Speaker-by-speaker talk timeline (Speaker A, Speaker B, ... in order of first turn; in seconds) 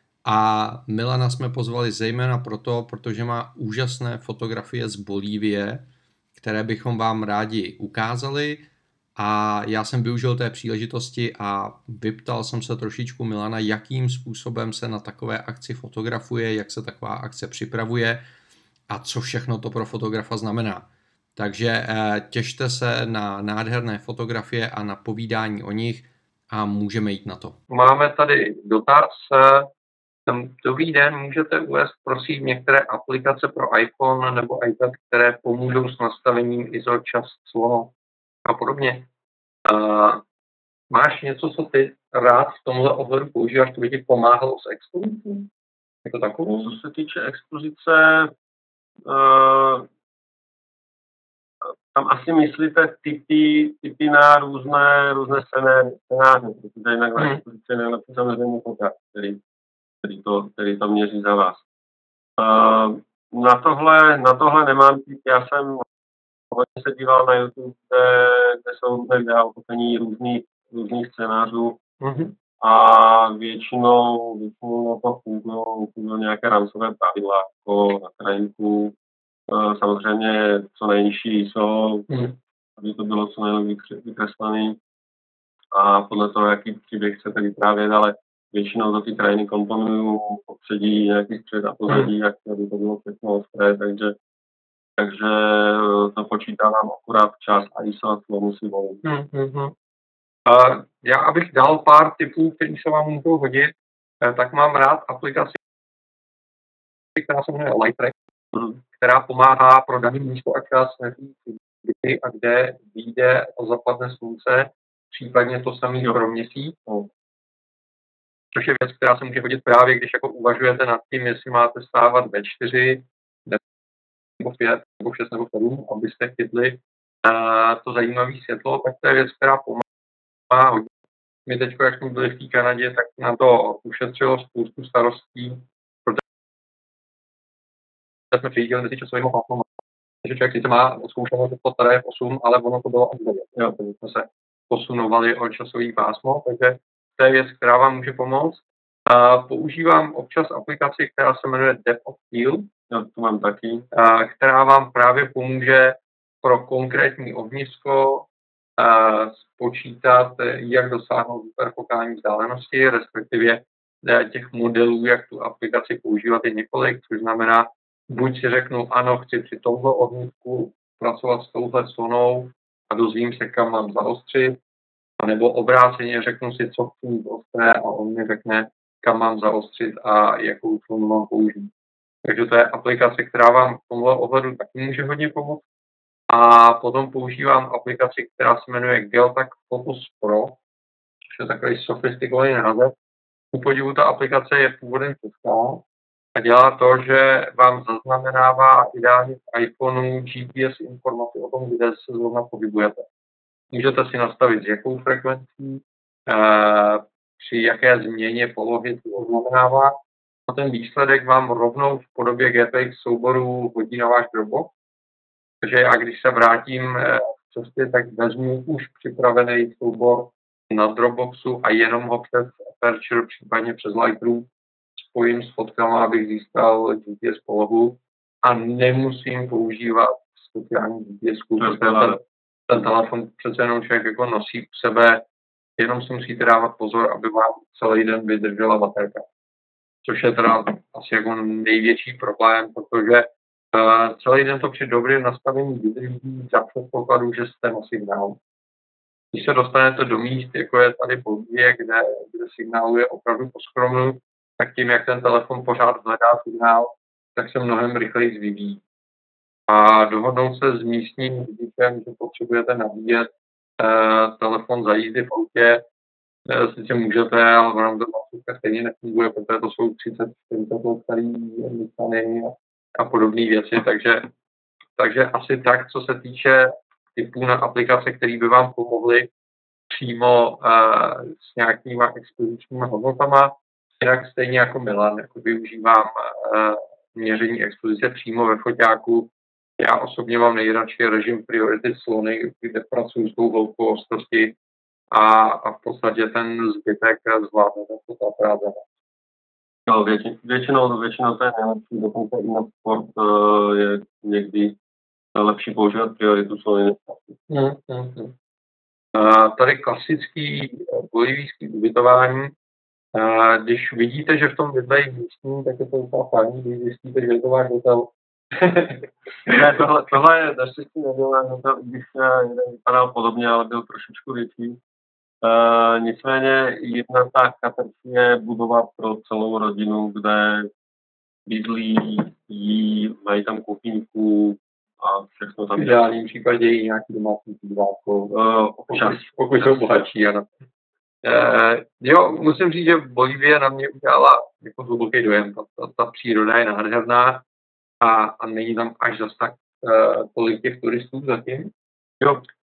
Speaker A: 0.2-5.8, 6.4-18.2, 18.9-27.6
Speaker B: 27.7-29.7, 30.3-37.9, 38.4-39.1, 39.6-40.2, 40.9-45.5, 46.0-46.7, 57.2-57.4, 72.0-72.3, 82.1-82.3, 99.0-99.7, 100.5-105.6, 107.1-108.1, 108.9-116.8, 118.5-123.6, 124.4-129.8, 130.5-130.9, 131.4-136.2, 138.3-139.7, 140.2-152.7, 153.9-174.6, 175.2-181.7, 182.2-185.6, 186.3-190.6, 191.2-192.9, 193.5-195.8, 196.3-203.1, 203.7-214.7, 215.6-235.2, 235.8-239.2, 240.0-248.4, 249.3-258.8, 259.7-265.8, 266.5-274.3, 275.0-279.3, 279.9-294.5, 295.1-298.9, 307.5-308.3, 309.1-312.5, 313.1-319.7, 335.7-338.3, 338.9-340.5, 341.2-347.4, 348.0-351.7
Speaker C: 46.5-48.3, 49.0-49.9, 51.6-59.4, 60.0-61.6, 62.4-65.8, 66.5-71.8, 72.6-79.0, 79.5-82.1, 82.8-84.8, 85.7-94.2, 95.0-99.0, 108.5-108.8, 152.9-153.9, 231.6-232.2, 299.9-304.8, 305.3-307.4, 319.5-324.8, 325.4-330.7, 331.4-336.0, 338.3-340.1